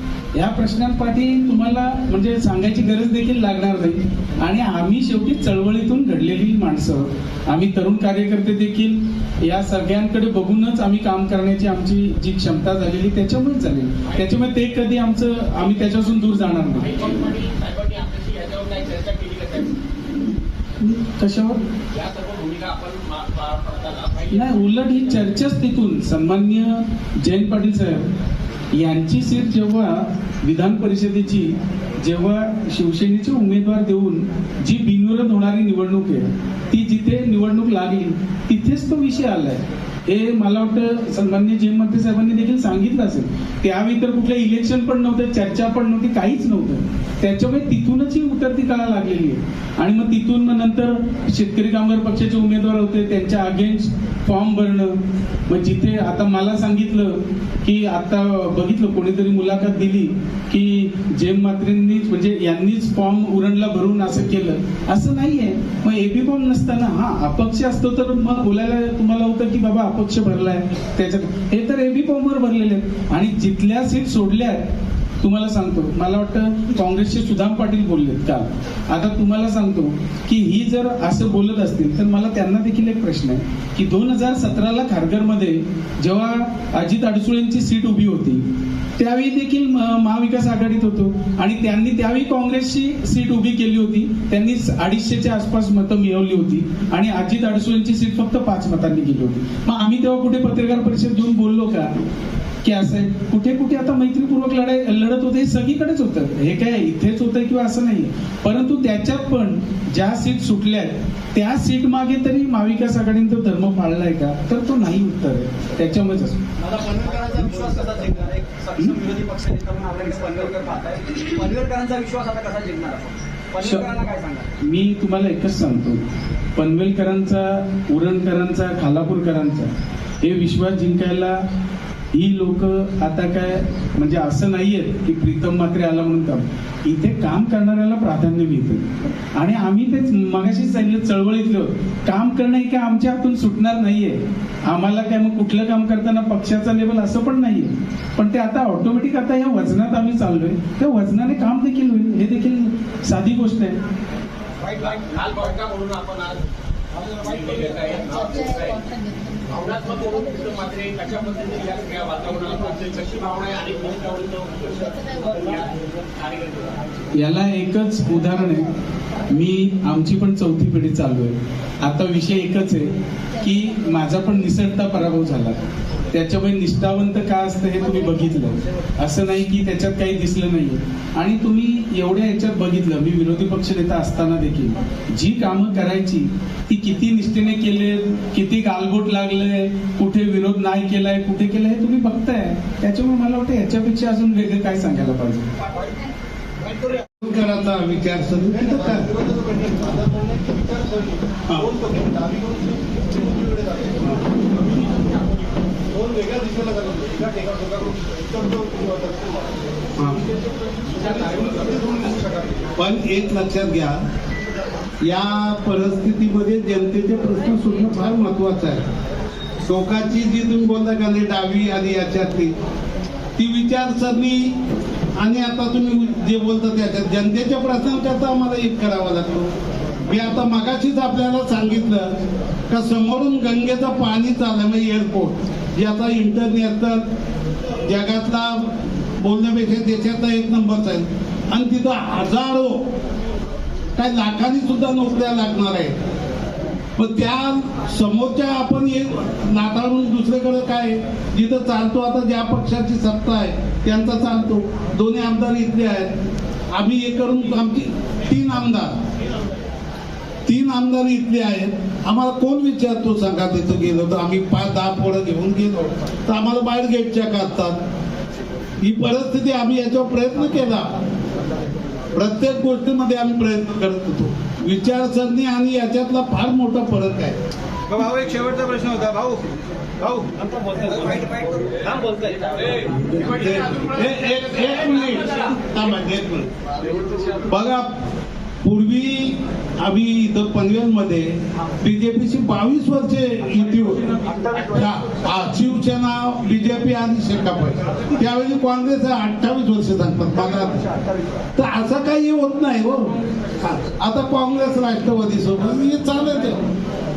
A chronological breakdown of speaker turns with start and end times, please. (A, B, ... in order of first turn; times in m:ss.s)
0:00.3-0:17.0 A
0:14.0-0:16.1 B
0:16.7-0:19.8 B
0:20.8-0:21.6 A
0:21.9-0:25.0 B
0:24.3-0:28.1 A
0:28.7-0:55.0 A
0:55.5-1:14.6 A
1:15.2-1:28.4 A
1:29.0-1:41.9 A
1:42.6-1:56.4 A
1:56.6-2:04.5 C
1:57.0-1:58.1 D
2:04.6-2:06.0 A
2:06.6-2:09.7 A
2:10.2-2:11.4 A
2:12.1-2:33.8 A
2:34.6-2:35.1 D
2:34.8-2:36.4 B
2:37.0-2:37.6 D
2:37.1-2:38.8 B
2:39.5-2:46.8 B
2:47.2-2:48.7 A
2:49.3-2:52.9 A
2:53.4-2:55.6 A
2:56.1-3:15.4 A
3:16.6-3:17.0 D
3:17.2-3:19.1 E
3:18.5-3:24.4 D
3:24.5-3:25.6 B
3:25.9-3:32.7 D
3:30.4-3:31.9 B
3:32.8-3:34.0 E
3:35.0-3:38.8 E
3:39.7-3:42.5 E
3:43.4-3:44.5 E
3:45.2-3:49.5 E
3:50.1-3:52.1 E
3:52.7-3:57.0 E
3:57.8-3:58.7 E
3:59.2-4:02.8 E
4:04.0-4:06.0 E
4:07.0-4:16.1 E
4:16.7-4:19.0 E
4:20.5-4:27.8 E
4:28.8-4:30.9 E
4:32.2-4:37.4 E
4:37.9-4:39.4 D
4:40.0-4:40.3 D
4:40.4-4:43.2 C
4:40.9-4:41.2 D
4:42.5-4:42.9 D
4:42.5-4:45.6 B
4:43.1-4:46.5 E
4:47.4-4:47.9 E
4:48.6-4:54.1 E
4:54.2-4:54.7 C
4:54.7-5:00.8 E
5:00.9-5:01.2 C
5:01.6-5:06.6 E